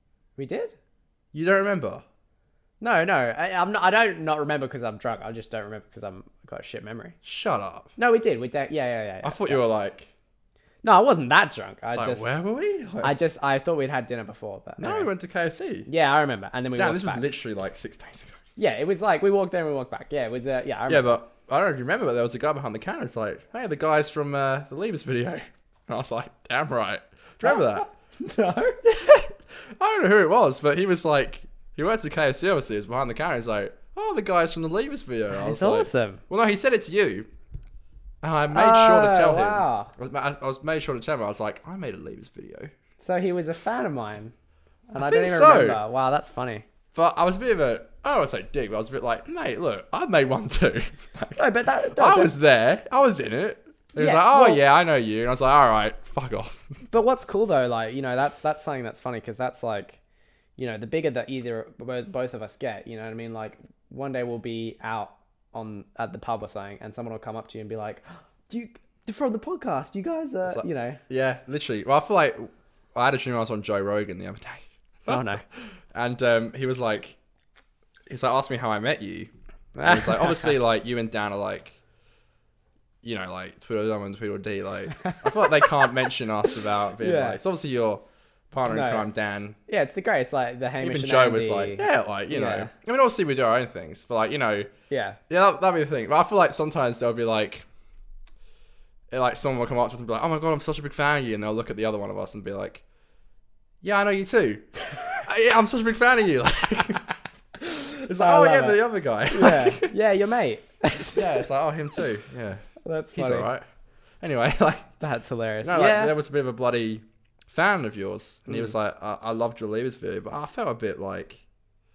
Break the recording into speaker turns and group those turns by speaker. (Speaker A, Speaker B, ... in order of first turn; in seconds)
Speaker A: 0.4-0.8, 2.8-7.2, 8.0-9.6, 10.8-12.4, 13.0-15.1, 15.9-17.2, 18.6-21.1, 27.4-28.8, 35.3-36.2, 38.5-39.9, 43.0-44.3, 44.9-46.7, 51.4-52.3, 54.0-54.6, 56.9-60.0, 60.6-71.0, 75.1-75.4, 79.8-80.6, 85.0-86.0, 87.0-87.4, 88.7-89.1, 89.7-92.7, 94.9-95.2, 107.7-111.5, 112.8-113.5, 115.0-116.2
Speaker B: 1.3-2.0, 7.2-7.9, 9.2-10.1, 11.9-13.2, 14.8-15.9, 16.8-18.4, 20.9-27.9, 28.8-37.3, 38.2-42.7, 45.0-45.8, 46.9-56.7, 70.5-77.2, 78.1-79.3, 79.8-81.8, 83.0-89.6, 90.8-94.7, 95.3-97.7, 99.1-102.8, 103.8-107.1, 107.6-109.9, 111.2-113.6, 114.2-114.9, 115.6-121.4